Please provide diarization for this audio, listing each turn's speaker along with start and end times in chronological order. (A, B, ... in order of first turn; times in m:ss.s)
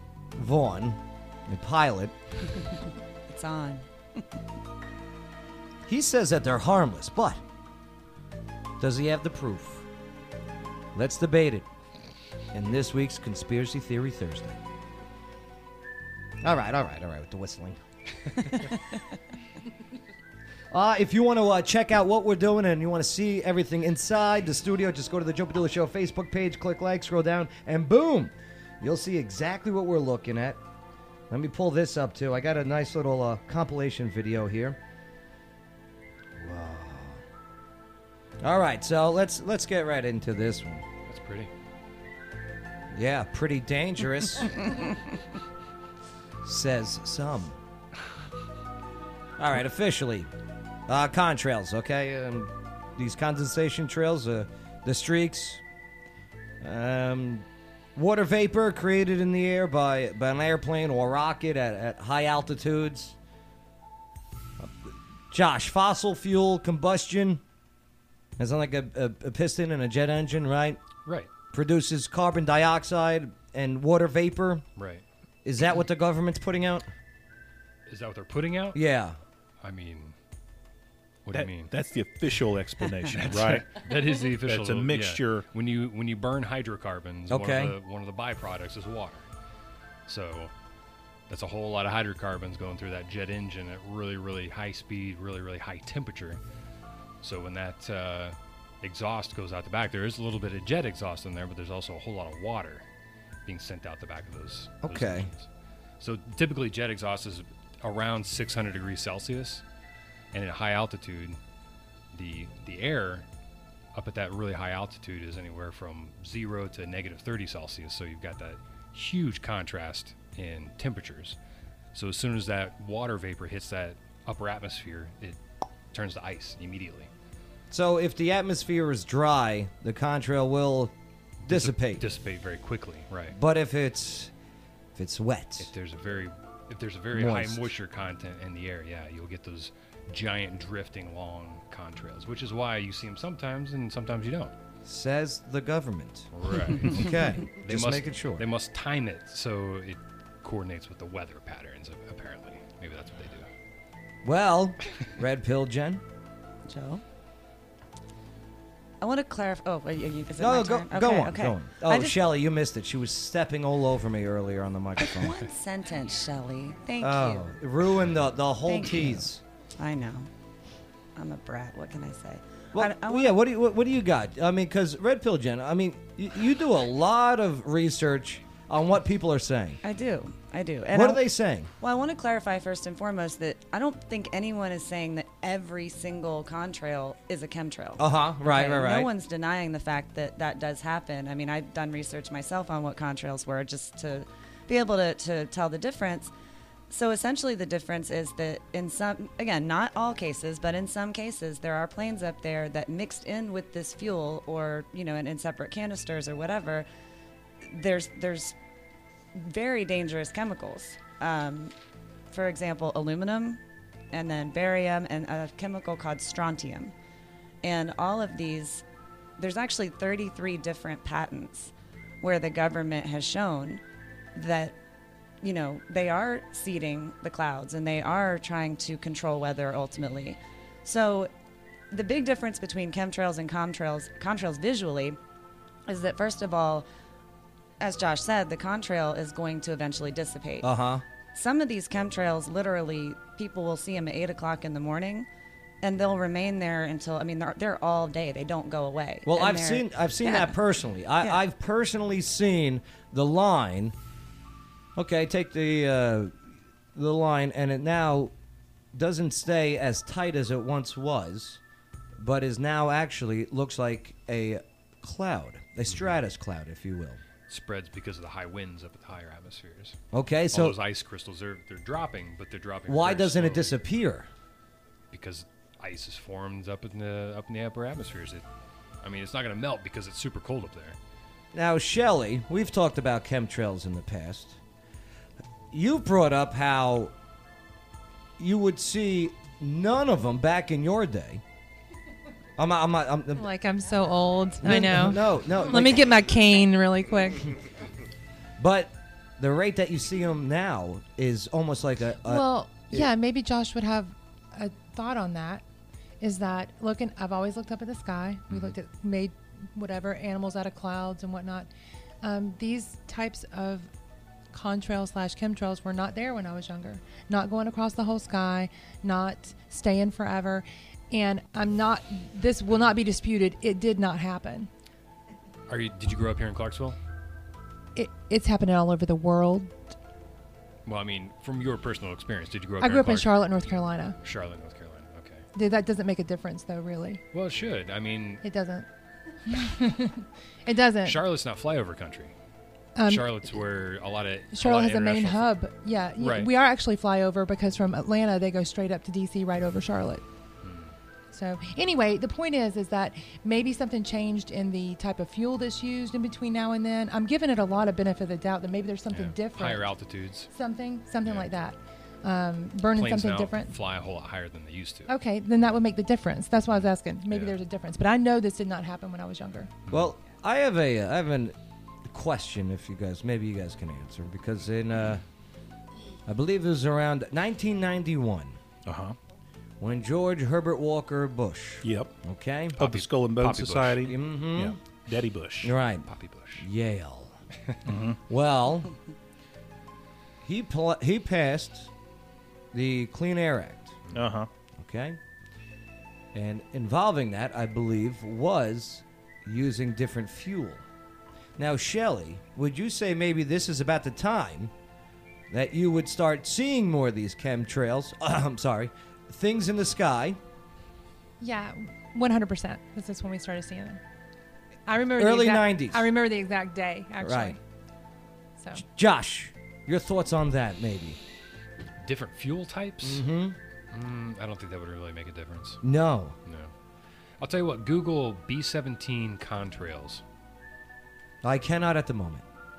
0:00.4-0:02.1 A
0:03.3-0:03.8 B
0:05.8-0:07.4 A
0:08.8-0:09.8 A
0:10.9-0:11.7 A
0:12.5-0:14.6 A
0:16.4-0:17.8 A
0:20.7-0:30.6 A
0:31.3-0:34.8 A
0:36.4-0:37.2 A
0:38.4-0:40.8 A
0:41.1-0:41.5 C
0:42.9-0:44.8 A
0:46.4-0:47.6 A
0:49.4-0:50.3 A
0:50.9-0:55.6 A
0:56.6-1:03.2 A
1:04.6-1:07.4 A
1:08.4-1:10.8 A
1:11.0-1:11.3 C
1:11.5-1:14.6 A
1:14.8-1:15.0 C
1:15.4-1:16.9 A
1:17.9-1:18.8 C
1:18.7-1:19.2 A
1:19.6-1:20.1 C
1:21.2-1:21.7 C
1:21.3-1:25.5 D
1:23.2-1:29.2 C
1:27.3-1:27.7 A
1:30.1-1:30.5 C
1:31.3-1:36.4 C
1:37.2-1:42.8 C
1:43.4-1:45.5 C
1:44.8-1:45.3 A
1:46.0-1:49.6 C
1:50.3-1:51.4 C
1:52.1-1:53.2 C
1:53.9-2:01.4 C
2:01.9-2:05.4 C
2:05.9-2:07.1 C
2:07.7-2:10.9 A
2:11.4-2:12.0 A
2:11.4-2:13.3 C
2:13.3-2:14.3 A
2:14.9-2:15.7 A
2:15.6-2:24.5 C
2:17.1-2:17.7 A
2:24.8-2:26.3 A
2:26.3-2:33.5 C
2:26.8-2:28.4 A
2:34.2-2:36.0 A
2:36.6-2:37.0 B
2:39.0-2:42.2 B
2:40.4-2:45.5 A
2:45.0-2:47.5 B
2:47.0-2:49.4 A
2:48.6-2:49.3 B
2:49.8-2:50.3 B
2:51.2-2:53.4 B
2:52.7-2:59.8 A
2:59.8-3:01.2 B
3:00.9-3:01.7 A
3:01.8-3:16.3 B
3:08.0-3:09.1 A
3:16.9-3:26.9 B
3:27.6-3:28.6 B
3:29.3-3:31.7 B
3:32.3-3:33.6 B
3:34.1-3:36.9 B
3:37.6-3:38.8 B
3:39.4-3:43.8 B
3:44.3-3:44.8 B
3:45.4-3:51.3 B
3:51.9-3:55.2 B
3:55.9-3:56.8 B
3:57.8-4:00.7 B
4:00.6-4:01.0 A
4:01.3-4:05.3 B
4:05.8-4:10.5 B
4:09.2-4:13.9 A
4:15.0-4:18.3 A
4:18.9-4:21.6 A
4:22.2-4:27.2 A
4:27.5-4:30.0 C
4:30.1-4:30.8 A
4:30.5-4:33.7 C
4:32.9-4:34.3 A
4:35.1-4:38.4 C
4:39.0-4:41.0 C
4:41.5-4:44.6 A
4:45.7-4:47.1 A
4:48.4-4:51.4 A
4:52.6-4:53.5 A
4:53.4-4:57.5 E
4:54.6-4:56.1 A
4:58.6-5:03.1 A
5:02.2-5:05.6 E
5:06.2-5:11.7 E
5:08.5-5:08.7 C
5:12.2-5:13.9 E
5:14.5-5:24.7 E
5:25.7-5:27.0 C
5:28.0-5:29.7 E
5:30.8-5:33.4 C
5:32.8-5:34.2 E
5:34.2-5:35.4 C
5:35.5-5:37.2 E
5:37.3-5:38.4 C
5:38.4-5:38.8 E
5:39.5-5:41.2 E
5:41.0-5:42.3 C
5:43.0-5:43.3 E
5:43.0-5:45.5 C
5:44.5-5:50.2 E
5:46.2-5:46.5 C
5:50.6-5:50.9 C
5:51.3-5:59.9 E
5:59.1-6:00.5 C
6:00.5-6:03.7 E
6:01.2-6:01.5 C
6:02.9-6:05.1 C
6:05.1-6:09.7 E
6:07.3-6:07.6 C
6:09.9-6:10.1 C
6:09.9-6:15.2 A
6:16.3-6:18.6 A
6:18.8-6:19.2 D
6:19.8-6:22.8 A
6:21.8-6:22.1 D
6:22.8-6:25.7 D
6:22.8-6:24.1 C
6:24.0-6:24.8 A
6:25.6-6:27.4 A
6:26.1-6:26.6 C
6:27.8-6:28.2 D
6:28.3-6:28.9 A
6:30.4-6:31.9 A
6:32.7-6:34.0 A
6:34.1-6:34.5 D
6:34.8-6:35.2 A
6:36.3-6:40.8 A
6:41.6-6:44.7 A
6:45.5-6:50.4 A
6:51.4-6:54.0 E
6:54.9-6:57.6 E
6:55.2-6:56.1 A
6:57.2-6:57.6 A
6:58.6-6:58.8 E
6:58.8-7:01.2 A
7:02.0-7:03.2 C
7:03.0-7:03.6 A
7:03.9-7:05.8 C
7:05.8-7:06.4 A
7:06.4-7:06.7 C
7:07.4-7:10.2 C
7:11.4-7:12.4 A